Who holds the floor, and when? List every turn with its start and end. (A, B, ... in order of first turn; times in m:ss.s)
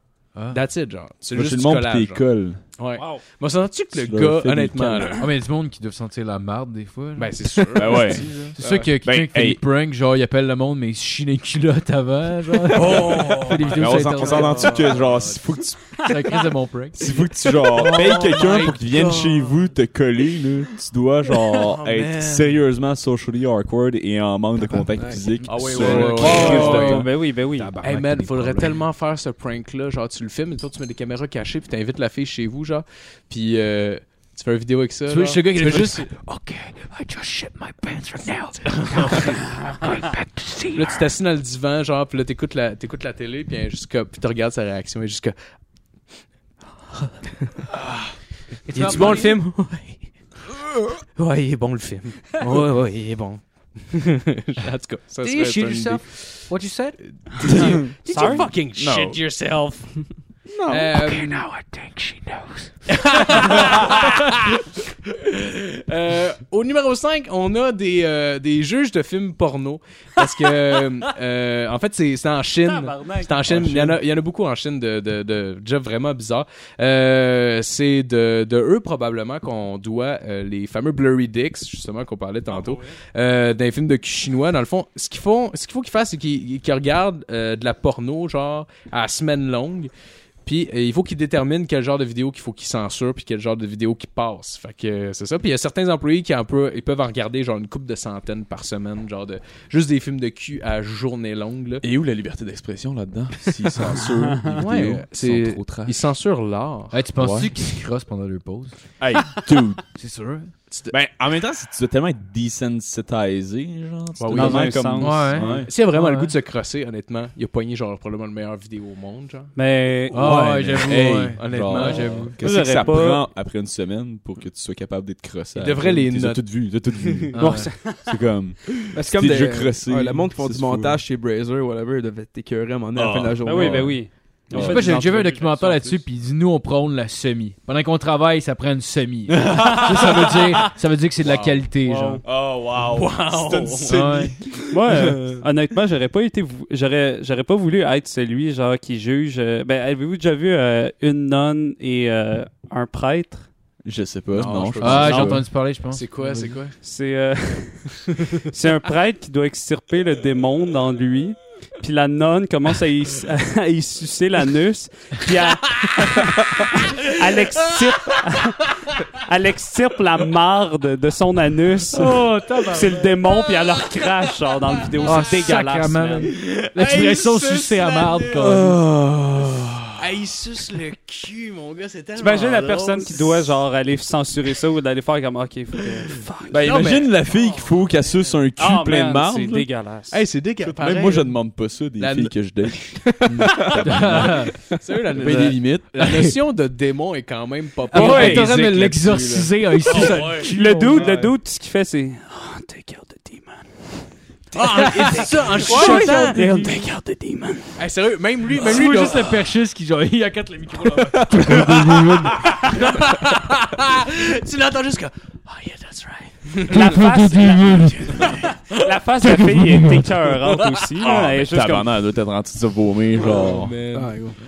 0:00.5-0:02.2 A
0:01.2-0:02.6 B
0:02.8-0:05.3 A
0:03.0-0:03.2 C
0:03.9-0:05.2 B
0:05.2-0:15.2 D
0:07.2-0:08.3 A
0:07.8-0:08.3 B
0:09.0-0:09.6 B
0:12.7-0:15.0 A
0:12.8-0:16.0 B
0:16.0-0:18.6 D
0:17.0-0:27.0 B
0:17.9-0:19.6 A
0:21.5-0:22.6 A
0:25.4-0:28.8 D
0:25.4-0:27.1 A
0:25.9-0:27.8 C
0:27.8-0:36.1 A
0:35.1-0:41.1 D
0:38.6-0:39.4 A
0:40.7-0:45.3 A
0:48.7-0:49.4 D
0:48.7-0:50.1 A
0:51.1-0:56.5 A
0:55.2-0:57.0 D
0:57.3-1:00.1 A
0:58.1-0:58.5 C
0:58.8-0:59.2 B
1:00.7-1:01.5 A
1:01.0-1:03.5 D
1:02.9-1:29.9 A
1:12.7-1:13.8 C
1:13.5-1:13.9 B
1:30.4-1:41.8 A
1:41.8-1:46.0 B
1:44.5-1:47.0 A
1:46.9-1:48.8 D
1:47.2-1:47.5 B
1:49.0-1:49.8 B
1:50.0-1:50.5 D
1:50.7-1:51.0 A
1:50.9-1:55.7 B
1:54.2-1:59.5 A
1:54.3-1:55.6 C
1:55.0-1:56.3 D
1:59.6-2:00.7 C
2:00.1-2:02.4 D
2:00.1-2:11.0 B
2:01.4-2:02.3 A
2:02.4-2:03.3 C
2:05.6-2:07.3 A
2:07.4-2:07.7 D
2:07.4-2:08.1 C
2:08.9-2:14.0 E
2:12.9-2:15.0 B
2:13.4-2:16.0 C
2:14.5-2:22.2 D
2:19.3-2:20.4 B
2:21.2-2:21.7 A
2:21.8-2:22.2 C
2:22.2-2:24.5 B
2:22.9-2:24.2 A
2:23.9-2:24.4 D
2:24.7-2:33.5 C
2:33.8-2:35.4 B
2:34.3-2:36.8 A
2:34.8-2:36.6 D
2:36.8-2:56.3 C
2:51.9-2:54.9 A
2:52.0-2:52.8 D
2:55.0-2:58.8 D
2:56.4-2:58.5 A
2:58.4-3:00.0 B
3:00.0-3:03.5 A
3:02.2-3:07.1 C
3:05.8-3:07.6 A
3:06.5-3:09.7 B
3:08.6-3:10.2 C
3:10.1-3:11.4 A
3:10.6-3:14.5 B
3:12.0-3:12.8 A
3:13.3-3:14.5 D
3:13.7-3:21.1 A
3:15.2-3:15.6 B
3:17.9-3:21.1 D
3:18.0-3:18.5 C
3:18.1-3:18.3 B
3:19.9-3:24.0 C
3:24.5-3:26.6 A
3:24.6-3:27.8 C
3:24.8-3:26.8 D
3:27.8-3:29.4 A
3:28.6-3:32.7 D
3:32.5-3:38.9 A
3:36.7-3:41.9 C
3:40.5-3:40.8 A
3:41.0-3:43.8 B
3:43.2-3:44.1 A
3:43.9-3:44.4 E